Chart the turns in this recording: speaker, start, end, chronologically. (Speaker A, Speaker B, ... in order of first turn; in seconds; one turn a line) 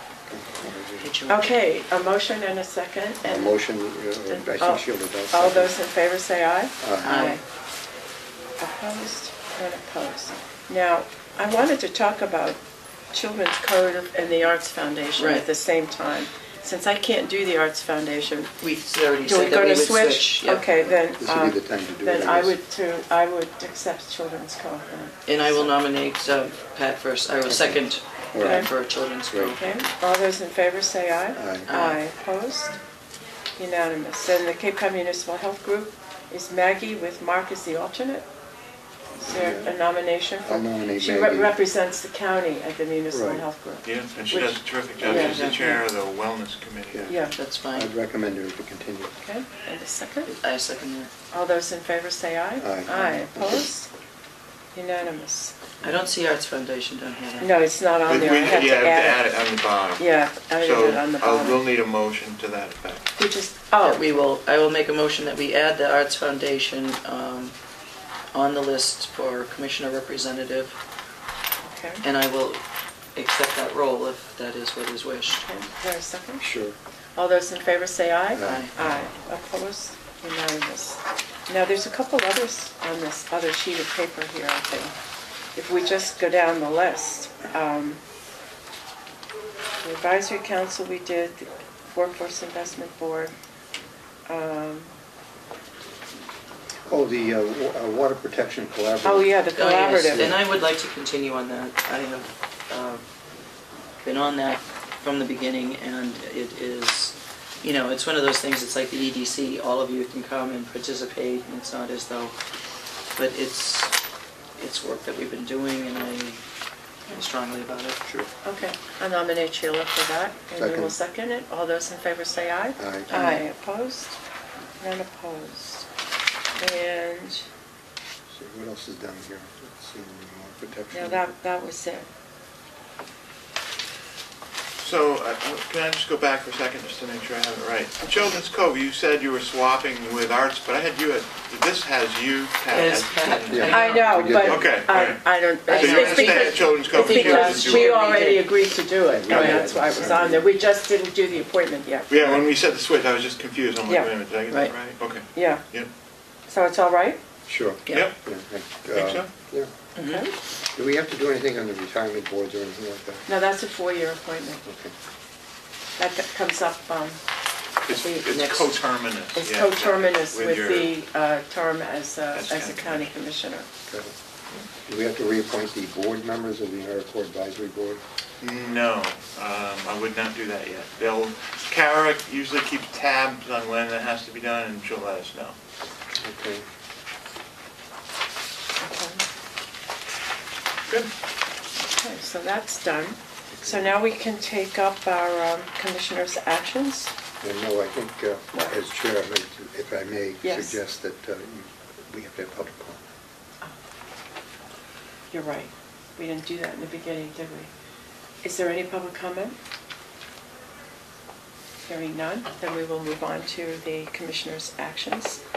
Speaker A: 0.3-1.1
Speaker B: 1.0-1.5
Speaker C: 1.3-3.6
Speaker A: 3.2-5.7
Speaker C: 4.3-7.4
Speaker A: 6.8-7.2
Speaker B: 7.0-7.4
Speaker C: 8.6-12.6
Speaker C: 13.1-18.6
Speaker B: 15.2-15.4
Speaker B: 18.6-20.9
Speaker C: 19.2-25.7
Speaker A: 21.2-22.6
Speaker B: 25.3-29.6
Speaker A: 27.5-28.7
Speaker C: 28.4-28.7
Speaker A: 29.3-29.6
Speaker C: 29.6-32.8
Speaker A: 31.4-31.7
Speaker B: 31.7-32.0
Speaker C: 33.6-38.3
Speaker C: 39.2-45.8
Speaker A: 39.2-39.8
Speaker A: 40.4-41.5
Speaker A: 43.1-43.5
Speaker D: 43.9-47.2
Speaker B: 45.0-45.7
Speaker C: 47.1-47.4
Speaker B: 47.4-47.9
Speaker A: 47.7-49.2
Speaker C: 49.2-50.3
Speaker B: 50.3-51.1
Speaker C: 51.3-53.9
Speaker A: 52.6-53.7
Speaker C: 54.7-55.5
Speaker B: 55.8-57.5
Speaker C: 57.4-59.3
Speaker D: 58.1-60.1
Speaker C: 60.0-61.6
Speaker D: 60.6-63.1
Speaker C: 63.2-64.0
Speaker B: 63.8-67.5
Speaker B: 68.3-70.8
Speaker C: 71.6-72.0
Speaker B: 72.0-72.6
Speaker B: 73.2-75.4
Speaker C: 75.3-76.5
Speaker A: 76.4-76.8
Speaker C: 77.2-84.9
Speaker A: 78.3-78.7
Speaker B: 78.4-78.7
Speaker C: 85.5-88.0
Speaker C: 89.8-93.3
Speaker C: 94.3-94.9
Speaker A: 96.9-99.4
Speaker C: 99.0-100.4
Speaker B: 99.5-103.0
Speaker A: 100.1-100.4
Speaker B: 104.0-112.3
Speaker B: 113.2-113.9
Speaker B: 114.6-116.4
Speaker B: 117.1-118.0
Speaker C: 118.4-124.2
Speaker A: 120.6-121.0
Speaker A: 122.8-123.1
Speaker B: 123.1-123.4
Speaker C: 124.8-125.9
Speaker C: 126.6-127.5
Speaker A: 128.3-131.3
Speaker C: 130.9-132.1
Speaker D: 134.8-143.9
Speaker B: 142.7-144.3
Speaker A: 143.5-144.8
Speaker C: 143.7-152.4
Speaker D: 144.4-148.0
Speaker B: 145.7-148.5
Speaker A: 149.1-150.6
Speaker B: 149.3-150.2
Speaker D: 152.1-155.9
Speaker C: 155.3-155.7
Speaker C: 156.5-157.2
Speaker A: 157.5-159.7
Speaker D: 157.9-158.2
Speaker D: 158.9-159.3
Speaker B: 159.9-160.2
Speaker C: 160.0-160.3
Speaker A: 160.7-163.3
Speaker C: 163.3-164.6
Speaker A: 164.7-164.9
Speaker C: 166.0-167.2
Speaker D: 167.9-170.9
Speaker C: 167.9-168.3
Speaker B: 168.3-168.7
Speaker C: 169.3-173.7
Speaker D: 172.3-173.1
Speaker A: 174.9-178.0
Speaker D: 178.4-185.6
Speaker A: 186.2-186.7
Speaker C: 188.8-189.2
Speaker C: 191.8-197.1
Speaker A: 193.5-193.9
Speaker A: 197.4-203.0
Speaker C: 200.4-200.8
Speaker C: 205.3-207.7
Speaker C: 208.4-209.6
Speaker C: 211.9-215.4